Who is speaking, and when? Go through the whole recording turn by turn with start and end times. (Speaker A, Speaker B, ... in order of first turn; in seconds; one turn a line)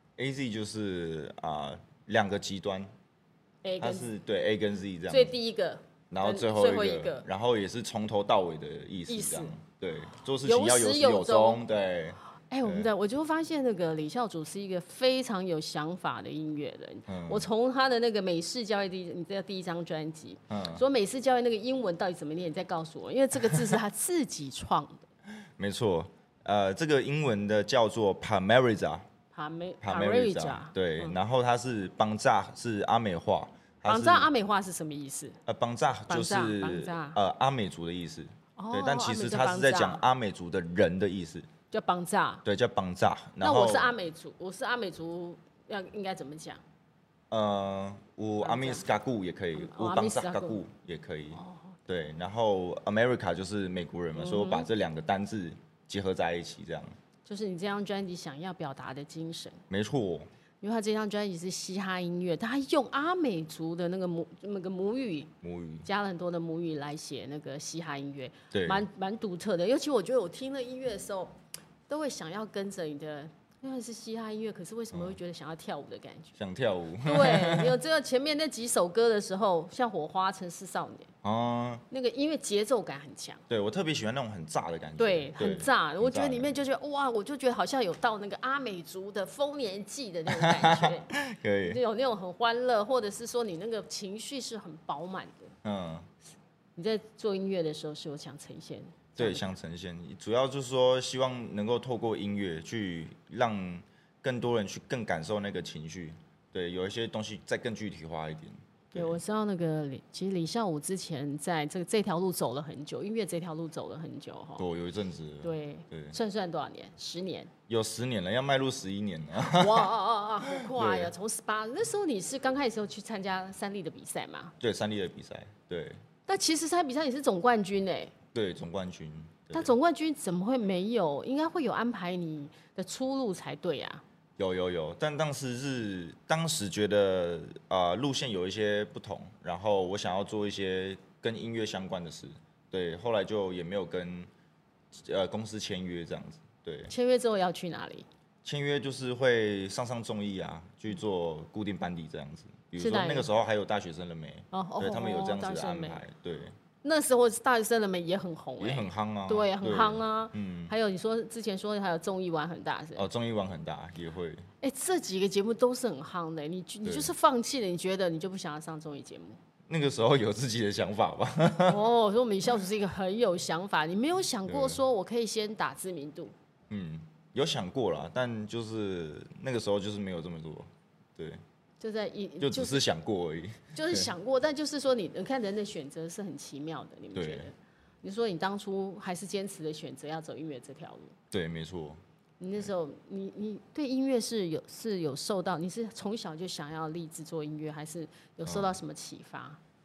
Speaker A: 0.2-2.9
Speaker B: 3.6-4.1
Speaker A: 3.8-5.3
Speaker B: 5.1-7.2
Speaker A: 6.1-12.9
Speaker B: 9.1-9.5
Speaker B: 10.4-11.6
Speaker B: 12.5-25.0
Speaker A: 17.1-17.5
Speaker A: 20.5-20.8
Speaker A: 25.6-29.0
Speaker B: 29.3-31.2
Speaker A: 29.8-34.3
Speaker B: 33.9-35.4
Speaker A: 35.5-41.5
Speaker B: 36.1-37.2
Speaker B: 38.6-40.0
Speaker B: 41.7-42.4
Speaker A: 42.4-44.0
Speaker B: 43.4-46.6
Speaker A: 47.3-57.0
Speaker B: 48.4-48.8
Speaker B: 49.5-50.6
Speaker B: 51.3-51.8
Speaker B: 54.1-54.7
Speaker B: 57.2-59.6
Speaker A: 59.7-60.3
Speaker B: 60.6-65.3
Speaker A: 65.4-65.9
Speaker B: 65.8-71.3
Speaker A: 68.5-68.8
Speaker B: 71.9-76.4
Speaker A: 76.4-77.8
Speaker B: 77.0-81.1
Speaker A: 81.2-81.8
Speaker B: 81.9-83.4
Speaker A: 83.5-86.5
Speaker B: 85.0-95.5
Speaker A: 90.3-91.8
Speaker A: 95.6-96.1
Speaker B: 96.8-99.5
Speaker A: 99.2-109.2
Speaker B: 108.9-114.7
Speaker A: 114.6-116.2
Speaker B: 115.4-117.5
Speaker A: 117.7-119.9
Speaker B: 119.4-124.5
Speaker A: 120.5-121.1
Speaker A: 124.6-126.0
Speaker B: 126.3-128.1
Speaker A: 128.3-129.7
Speaker B: 129.5-134.0
Speaker A: 134.4-144.3
Speaker A: 144.9-146.9
Speaker B: 146.9-148.1
Speaker A: 148.4-156.6
Speaker B: 152.8-153.3
Speaker B: 154.5-156.0
Speaker B: 156.8-163.1
Speaker A: 158.6-160.7
Speaker A: 163.0-164.5
Speaker B: 164.6-169.4
Speaker A: 166.8-167.1
Speaker A: 169.7-171.8
Speaker B: 171.6-176.3
Speaker A: 174.4-174.8
Speaker A: 176.7-181.4
Speaker B: 181.8-182.8
Speaker A: 182.4-184.1
Speaker B: 183.7-191.1
Speaker A: 187.1-187.5
Speaker A: 191.3-192.0
Speaker B: 192.4-199.6
Speaker A: 198.4-198.8